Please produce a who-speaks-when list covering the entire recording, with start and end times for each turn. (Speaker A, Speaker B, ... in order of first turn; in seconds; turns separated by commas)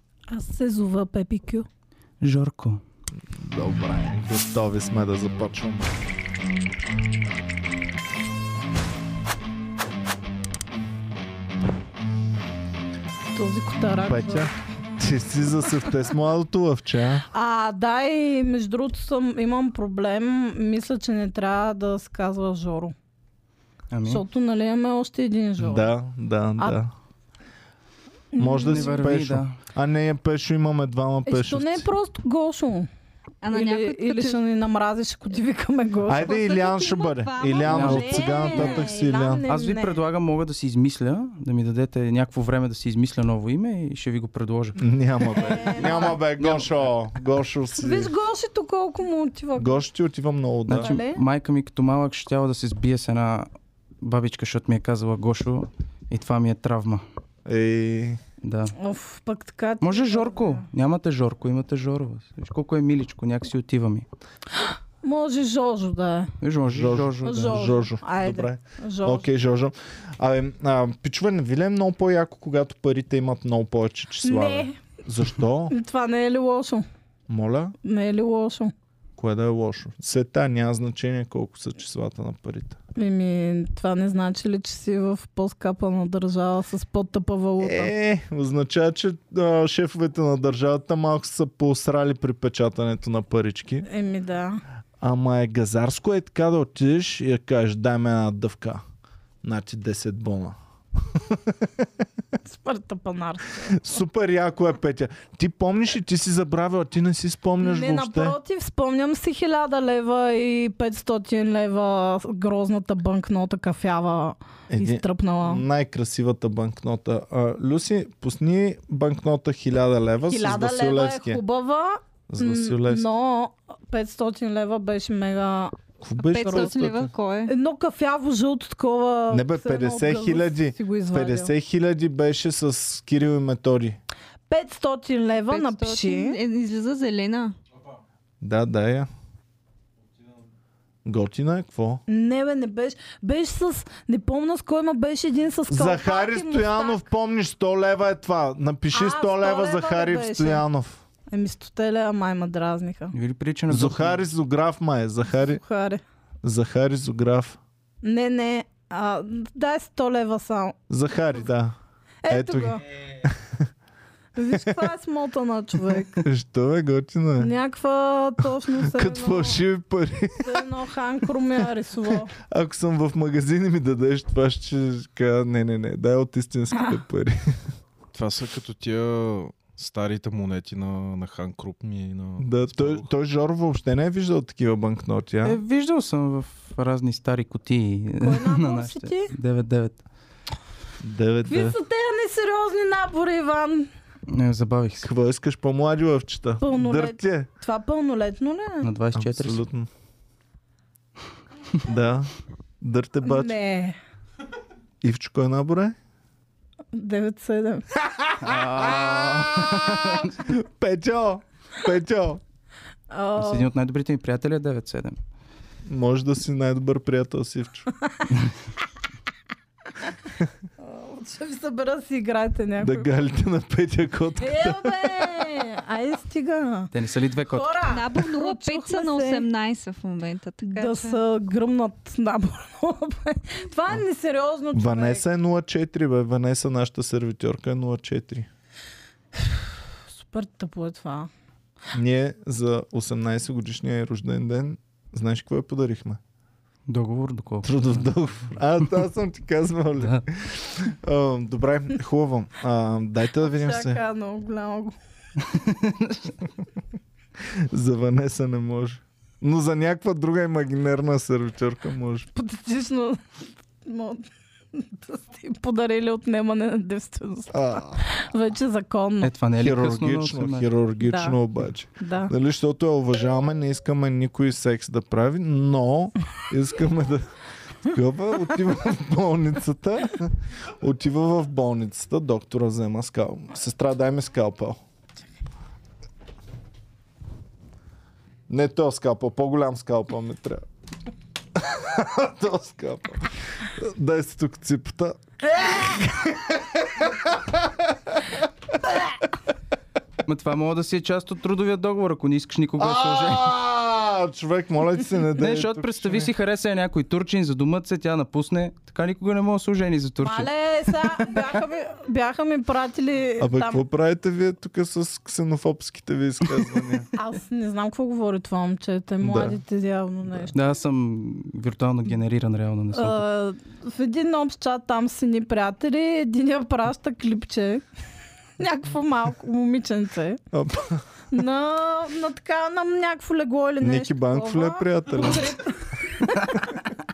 Speaker A: 0.3-1.6, Speaker B: 2.2-2.8, Speaker C: 3.3-5.9, Speaker A: 13.3-14.5, Speaker C: 14.1-17.2, Speaker A: 17.3-22.9, Speaker B: 23.9-24.2, Speaker A: 24.1-25.9, Speaker C: 25.6-26.9, Speaker A: 28.3-28.9, Speaker C: 28.4-31.9, Speaker B: 28.7-29.6, Speaker A: 31.3-32.9, Speaker D: 33.4-34.4, Speaker A: 33.5-36.3, Speaker C: 36.0-39.4, Speaker D: 36.2-38.8, Speaker B: 37.7-38.2, Speaker A: 37.7-40.0, Speaker B: 39.5-44.8, Speaker C: 44.8-48.1, Speaker A: 45.3-46.2, Speaker B: 46.4-46.7, Speaker A: 47.8-49.8, Speaker C: 49.6-50.9, Speaker B: 50.7-53.5, Speaker A: 50.7-51.2, Speaker B: 54.0-57.0, Speaker C: 57.5-58.2, Speaker B: 58.4-58.7, Speaker A: 58.8-60.6, Speaker B: 59.8-64.0, Speaker A: 65.0-66.3, Speaker B: 66.4-67.6, Speaker C: 66.6-75.7, Speaker A: 67.2-69.3, Speaker A: 74.2-74.8, Speaker A: 75.7-76.8, Speaker C: 77.3-77.8, Speaker A: 77.8-78.7, Speaker C: 79.2-82.8, Speaker A: 83.0-87.9, Speaker C: 87.6-93.8, Speaker A: 93.8-94.6, Speaker C: 95.0-98.8, Speaker C: 99.4-100.6, Speaker C: 101.1-101.8, Speaker A: 102.4-104.0, Speaker C: 103.7-108.4, Speaker A: 107.6-115.6, Speaker C: 114.7-121.4, Speaker A: 120.3-125.8, Speaker C: 122.3-123.1, Speaker C: 126.0-127.1, Speaker D: 126.3-127.5, Speaker A: 126.4-126.7, Speaker A: 127.5-131.5, Speaker C: 129.3-134.0, Speaker A: 134.5-136.4, Speaker D: 135.5-137.6, Speaker C: 138.4-139.1, Speaker C: 141.0-142.0, Speaker A: 142.1-147.0, Speaker C: 145.7-151.0, Speaker A: 148.9-150.6, Speaker A: 151.3-153.1, Speaker B: 153.1-154.2, Speaker C: 153.7-155.6, Speaker A: 155.5-156.0, Speaker C: 156.4-157.6, Speaker A: 158.0-160.8, Speaker C: 160.9-161.8, Speaker A: 162.2-162.8, Speaker C: 162.3-163.7, Speaker A: 164.3-166.2, Speaker C: 164.5-164.9, Speaker C: 166.2-167.5, Speaker A: 167.4-169.6, Speaker C: 168.8-170.6, Speaker A: 170.4-172.3, Speaker C: 172.3-177.6, Speaker E: 178.1-183.1, Speaker C: 182.4-185.6, Speaker B: 185.4-190.0, Speaker A: 188.2-189.3, Speaker C: 191.0-191.8, Speaker A: 191.5-193.9, Speaker B: 194.3-195.1, Speaker C: 195.0-197.5, Speaker A: 196.6-198.9, Speaker B: 198.8-199.6, Speaker C: 199.1-199.9, Speaker C: 201.8-203.6, Speaker A: 203.2-204.0, Speaker C: 205.0-205.9, Speaker A: 206.9-207.8, Speaker C: 208.2-212.4, Speaker B: 208.4-210.4, Speaker A: 213.1-213.7, Speaker B: 213.3-215.2, Speaker C: 215.9-217.9, Speaker A: 220.8-223.1, Speaker C: 222.8-225.5, Speaker A: 224.4-226.9, Speaker B: 226.9-227.8, Speaker A: 227.5-229.5, Speaker D: 227.9-231.2, Speaker A: 230.6-235.2, Speaker C: 234.7-238.5, Speaker A: 240.1-241.3, Speaker C: 241.9-246.2, Speaker B: 246.9-248.1, Speaker C: 247.6-254.0, Speaker A: 253.4-254.9, Speaker B: 255.4-256.4, Speaker C: 257.4-262.3, Speaker A: 262.3-263.2, Speaker A: 263.8-269.3, Speaker C: 267.5-268.1, Speaker B: 269.2-270.7, Speaker C: 269.6-277.3, Speaker A: 271.0-271.4, Speaker A: 272.0-272.3, Speaker C: 277.8-284.8, Speaker C: 288.5-290.6, Speaker C: 291.6-298.3, Speaker B: 300.2-303.5, Speaker C: 302.8-306.3, Speaker B: 305.4-310.5, Speaker A: 310.2-313.8, Speaker B: 311.1-311.4, Speaker C: 313.4-317.1, Speaker A: 317.1-320.5, Speaker C: 319.2-319.6, Speaker C: 320.2-320.5, Speaker B: 320.5-323.2, Speaker A: 322.9-327.8, Speaker A: 328.6-330.4, Speaker C: 330.5-331.0, Speaker A: 331.3-336.8, Speaker C: 333.8-335.6